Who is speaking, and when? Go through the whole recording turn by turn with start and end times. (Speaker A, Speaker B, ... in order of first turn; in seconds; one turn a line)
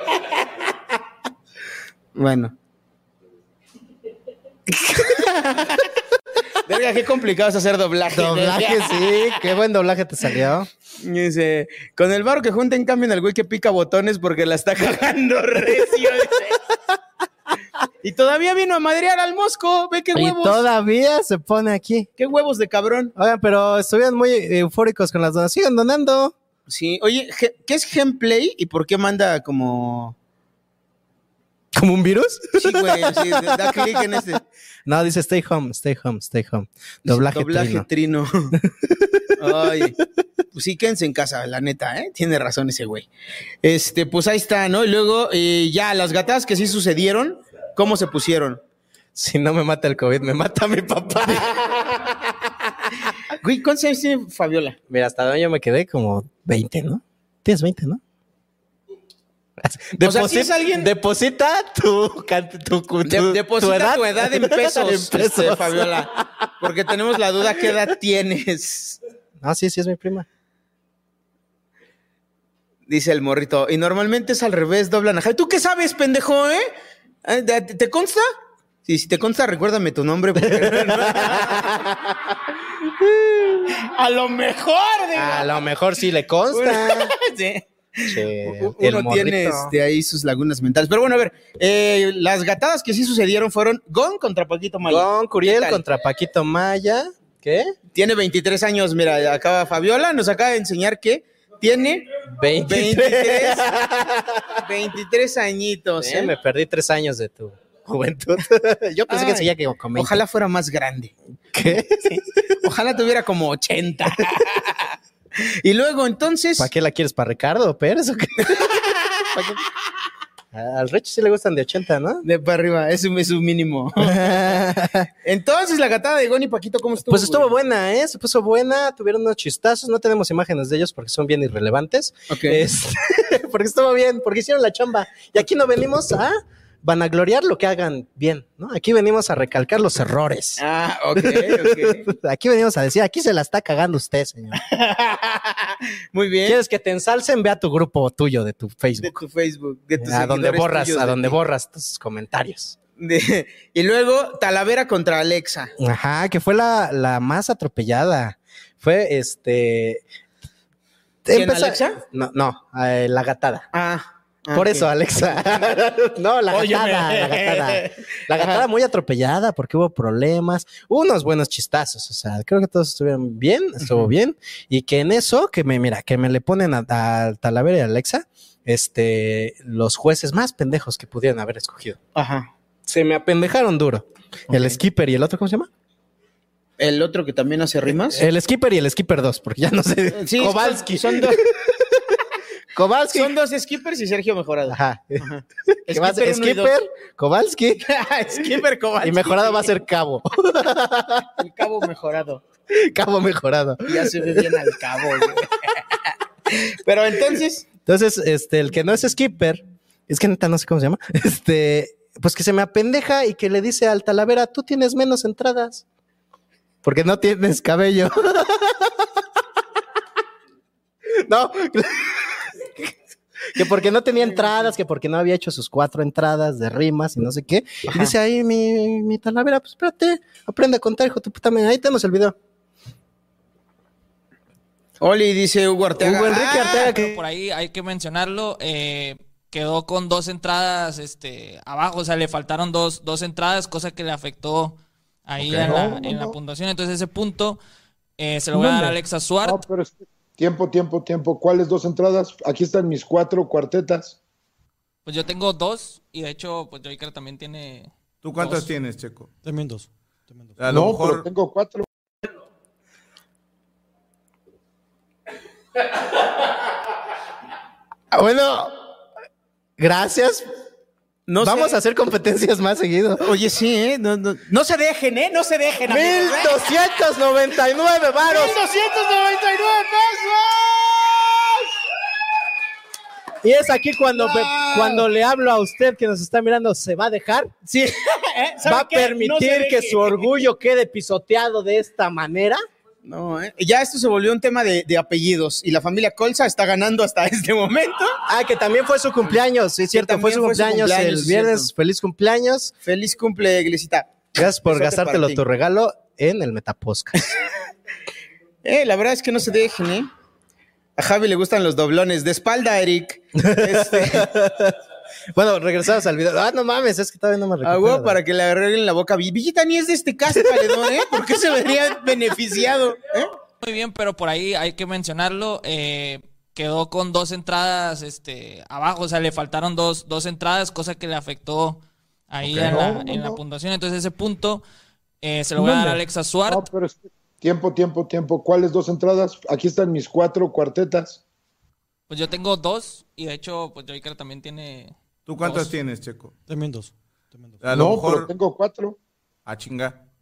Speaker A: 2.1-2.5
Speaker A: 6.7-9.3
Speaker B: 8.1-10.7
Speaker A: 11.0-16.6
Speaker A: 18.0-20.6
Speaker B: 20.1-22.1
Speaker A: 22.2-23.1
Speaker B: 23.1-26.3
Speaker A: 26.7-30.1
Speaker B: 31.7-37.9
Speaker A: 32.6-34.4
Speaker A: 37.1-38.5
Speaker B: 38.6-39.5
Speaker A: 39.4-40.0
Speaker A: 40.5-43.1
Speaker A: 43.6-48.6
Speaker B: 49.1-52.1
Speaker A: 53.4-54.8
Speaker B: 54.9-58.0
Speaker B: 59.6-66.5
Speaker A: 60.0-60.9
Speaker A: 63.0-69.0
Speaker B: 69.4-70.2
Speaker A: 72.9-76.7
Speaker A: 77.2-78.2
Speaker A: 78.8-81.8
Speaker B: 80.4-82.1
Speaker B: 83.2-83.7
Speaker A: 83.8-85.6
Speaker B: 85.1-87.1
Speaker A: 86.5-95.8
Speaker B: 88.1-89.7
Speaker B: 94.8-97.7
Speaker A: 97.9-102.1
Speaker B: 102.3-104.6
Speaker A: 102.7-103.8
Speaker A: 104.6-106.3
Speaker B: 106.0-110.2
Speaker A: 109.1-111.1
Speaker B: 111.5-112.2
Speaker A: 112.6-116.7
Speaker B: 116.6-118.8
Speaker B: 119.3-119.6
Speaker B: 120.5-122.2
Speaker A: 122.2-124.6
Speaker B: 124.0-125.1
Speaker A: 125.2-127.5
Speaker B: 127.1-140.6
Speaker A: 132.3-132.6
Speaker A: 140.6-142.0
Speaker B: 141.1-144.6
Speaker A: 144.6-146.6
Speaker B: 146.4-149.1
Speaker A: 149.0-151.4
Speaker B: 150.0-152.8
Speaker A: 153.0-155.7
Speaker B: 155.8-160.0
Speaker B: 161.2-163.7
Speaker A: 161.3-162.0
Speaker A: 163.7-164.9
Speaker B: 164.5-182.0
Speaker A: 166.5-168.6
Speaker A: 173.8-174.1
Speaker A: 182.1-182.5
Speaker B: 182.8-185.7
Speaker A: 184.5-184.8
Speaker A: 186.8-188.2
Speaker B: 188.1-192.2
Speaker A: 190.2-191.4
Speaker B: 192.7-193.3
Speaker A: 193.1-196.7
Speaker B: 194.7-195.2
Speaker B: 195.9-197.9
Speaker A: 197.9-199.7
Speaker B: 199.0-201.3
Speaker A: 201.4-202.4
Speaker B: 202.7-204.6
Speaker A: 203.8-205.7
Speaker A: 206.5-207.7
Speaker B: 207.8-215.8
Speaker B: 216.8-218.9
Speaker B: 221.2-222.2
Speaker B: 223.5-232.3
Speaker A: 224.3-224.7
Speaker A: 235.0-236.9
Speaker B: 236.0-237.2
Speaker C: 236.9-247.6
Speaker D: 245.4-246.3
Speaker C: 248.2-249.6
Speaker D: 248.5-254.2
Speaker C: 255.0-258.7
Speaker E: 258.2-259.3
Speaker F: 259.4-260.6
Speaker E: 260.6-261.2
Speaker D: 260.7-261.8
Speaker B: 268.1-268.7
Speaker B: 269.8-270.4
Speaker A: 271.3-271.8
Speaker B: 271.4-273.3
Speaker A: 273.2-276.7
Speaker B: 275.9-278.6
Speaker A: 278.2-281.6
Speaker B: 283.4-287.6
Speaker A: 284.1-285.1
Speaker A: 287.7-290.3
Speaker B: 288.6-292.6
Speaker A: 293.0-298.1
Speaker B: 298.3-302.7
Speaker A: 299.9-301.7
Speaker A: 302.8-305.4
Speaker B: 304.4-307.2
Speaker A: 308.6-310.1
Speaker A: 311.0-314.3
Speaker B: 313.4-314.7
Speaker B: 315.3-318.1
Speaker A: 317.6-323.3
Speaker B: 320.3-321.4
Speaker C: 323.6-334.6
Speaker D: 332.4-333.4
Speaker C: 335.2-336.6
Speaker D: 335.6-341.2
Speaker C: 342.1-345.7
Speaker E: 345.2-346.3
Speaker F: 346.5-347.7
Speaker E: 347.6-348.3
Speaker D: 347.7-349.0
Speaker E: 349.5-350.0